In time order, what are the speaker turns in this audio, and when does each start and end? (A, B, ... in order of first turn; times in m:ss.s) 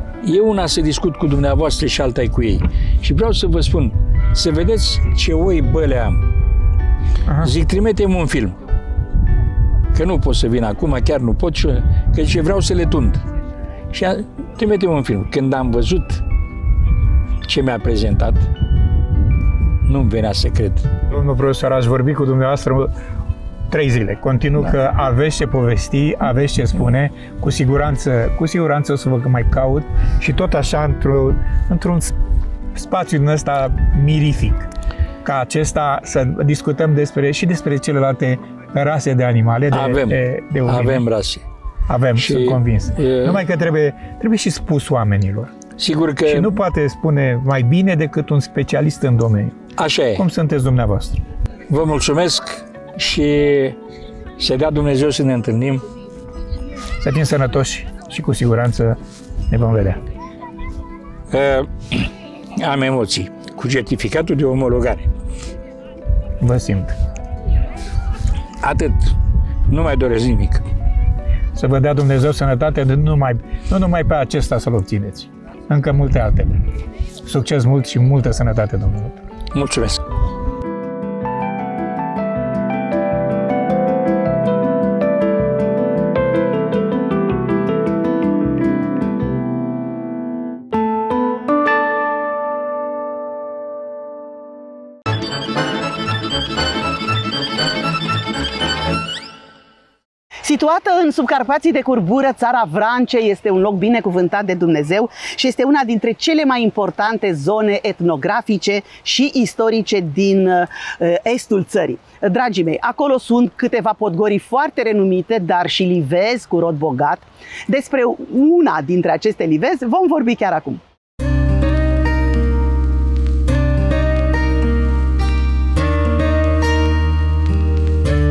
0:00.2-0:06.2 A
0:07.4-0:08.6 A
0:09.9-0:13.2 A
0:13.9-0:16.2 A
0:17.4-0:18.5 A
0:19.8-0:20.9 A
0:21.1-0:22.9 B
0:23.7-0:32.1 B
0:32.7-0:34.7 B
0:35.2-0:41.0 B
0:39.7-0:41.4 A
0:41.9-0:45.5 B
0:42.2-0:43.4 A
0:45.8-0:46.5 A
0:46.2-0:51.2 B
0:49.7-0:50.2 A
0:51.7-0:53.8 A
0:54.4-0:55.8 A
0:57.0-0:59.0 B
0:59.5-1:00.0 B
1:01.3-1:05.1 A
1:06.4-1:06.9 B
1:08.6-1:09.2 A
1:09.7-1:10.6 A
1:11.5-1:16.6 B
1:17.2-1:19.2 B
1:19.5-1:20.0 A
1:40.4-2:00.8 C